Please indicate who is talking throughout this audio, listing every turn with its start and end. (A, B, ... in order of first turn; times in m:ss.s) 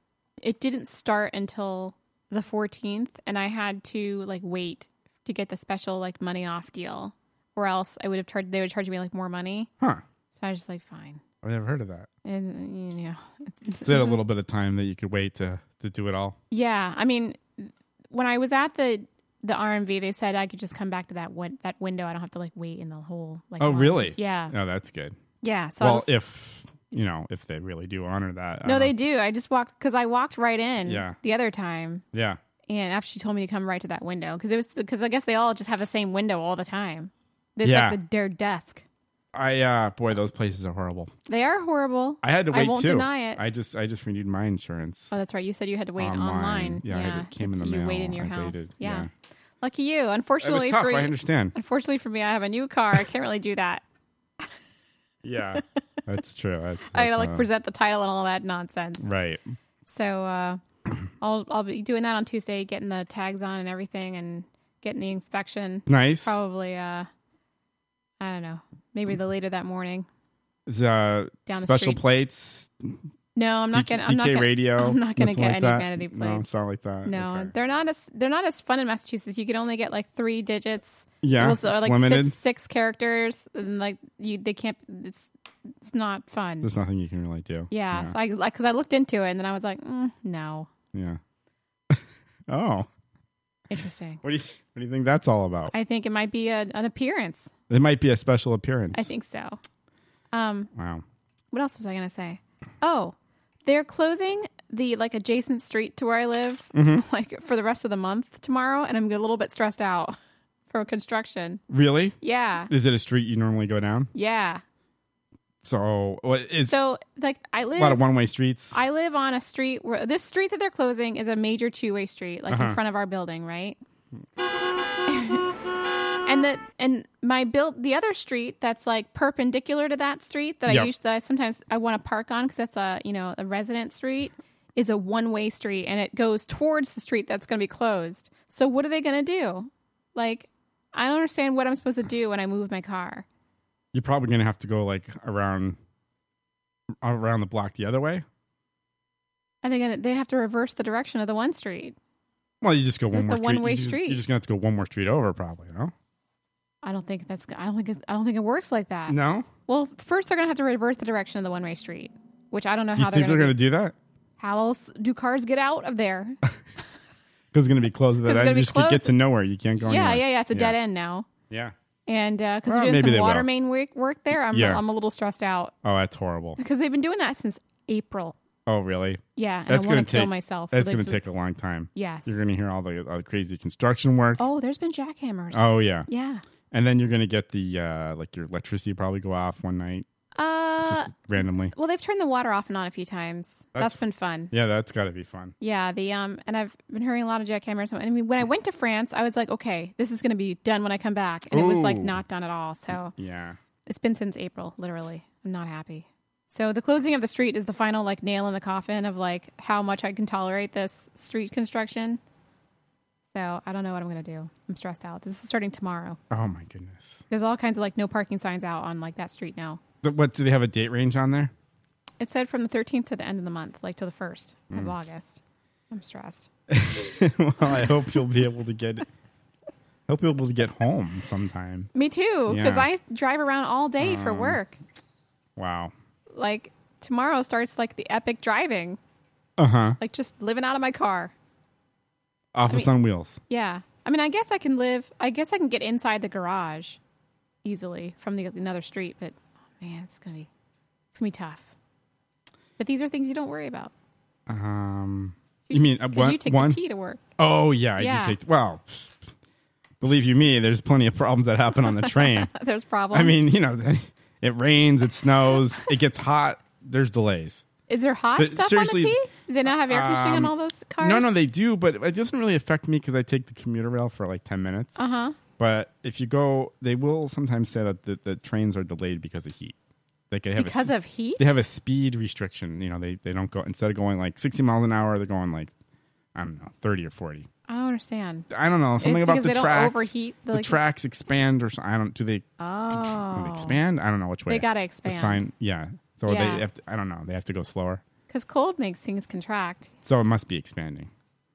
0:00.4-0:09.7 A
0:10.3-0:11.2 A
0:11.4-0:12.1 B
0:12.2-0:14.2 A
0:13.8-0:16.4 B
0:16.5-0:24.5 A
0:23.6-0:25.2 B
0:25.4-0:26.1 A
0:25.8-0:28.9 B
0:28.6-0:32.0 A
0:30.8-0:31.2 B
0:32.1-0:32.4 B
0:32.7-0:38.8 A
0:37.6-0:38.0 B
0:39.3-0:41.1 B
0:41.3-0:43.4 A
0:42.2-0:45.1 B
0:45.1-0:49.1 A
0:46.0-0:49.1 B
0:49.6-0:53.8 A
0:50.4-0:51.5 B
0:55.2-0:57.4 B
0:56.9-0:59.1 A
0:59.0-0:59.4 B
0:59.8-1:00.6 A
1:01.2-1:07.1 A
1:05.9-1:06.4 B
1:08.2-1:10.1 A
1:10.7-1:13.0 B
1:11.4-1:12.0 A
1:13.4-1:26.7 A
1:13.7-1:17.5 B
1:21.2-1:22.4 B
1:26.6-1:28.1 B
1:27.7-1:30.7 A
1:30.9-1:31.2 B
1:31.9-1:32.9 B
1:33.7-1:34.2 A
1:34.2-1:35.7 B
1:35.7-1:37.5 A
1:37.7-1:39.1 B
1:38.9-1:39.6 A
1:40.3-1:40.7 A
1:40.7-1:41.0 B
1:41.5-1:50.1 A
1:46.7-1:47.0 B
1:50.7-1:51.6 A
1:51.7-1:52.2 B
1:52.2-1:52.7 A
1:52.7-1:54.1 B
1:54.1-1:54.6 A
1:55.6-1:56.8 B
1:56.6-1:58.0 A
1:57.8-1:58.8 B
1:58.7-2:03.8 A
2:02.5-2:02.8 B
2:05.1-2:05.4 A
2:06.2-2:23.2 A
2:10.6-2:10.9 B
2:23.9-2:25.8 B
2:27.0-2:28.2 B
2:29.6-2:32.0 A
2:32.6-2:35.9 B
2:33.1-2:34.2 A
2:36.8-2:43.6 A
2:39.1-2:39.5 B
2:43.0-2:43.9 B
2:44.4-2:46.4 A
2:47.5-2:50.8 B
2:48.2-2:49.1 A
2:49.8-2:51.3 A
2:51.5-2:51.7 B
2:52.1-2:55.7 A
2:52.7-2:53.5 B
2:54.5-2:54.8 B
2:55.8-2:56.6 B
2:56.6-2:58.4 A
2:58.7-3:04.4 B
2:59.4-3:01.2 A
3:01.9-3:02.4 A
3:04.4-3:06.4 A
3:05.5-3:06.1 B
3:06.7-3:10.0 B
3:10.3-3:14.5 A
3:10.8-3:11.7 B
3:14.5-3:15.5 B
3:15.6-3:23.1 A
3:21.5-3:22.2 B
3:23.1-3:23.6 B
3:23.9-3:32.2 A
3:33.3-3:36.2 A
3:36.3-3:37.2 B
3:37.3-3:39.8 A
3:40.0-3:41.5 B
3:42.2-3:46.5 A
3:46.7-3:49.1 B
3:50.1-3:51.9 B
3:51.9-3:54.8 A
3:52.5-3:52.9 B
3:54.0-3:54.6 B
3:55.6-3:55.9 B
3:56.3-3:59.0 A
3:59.6-4:00.0 B
4:00.0-4:01.3 A
4:02.5-4:03.4 B
4:03.5-4:07.0 A
4:07.6-4:10.5 A
4:11.1-4:11.7 A
4:12.8-4:13.9 A
4:14.5-4:16.8 B
4:15.7-4:17.2 A
4:17.4-4:19.2 B
4:18.0-4:18.4 A
4:20.0-4:22.5 B
4:21.8-4:23.4 A
4:23.1-4:27.6 B
4:27.9-4:31.3 A
4:28.4-4:29.2 B
4:29.7-4:35.0 B
4:35.0-4:35.4 A
4:35.6-4:39.8 B
4:40.3-4:45.7 B
4:40.6-4:41.6 A
4:46.3-4:47.5 B
4:47.7-4:48.5 A
4:48.5-4:58.0 B
4:49.0-4:50.8 A
4:52.6-4:53.8 A
4:54.5-4:55.4 A
4:56.2-4:56.6 A
4:58.3-4:59.9 A
5:00.0-5:01.1 B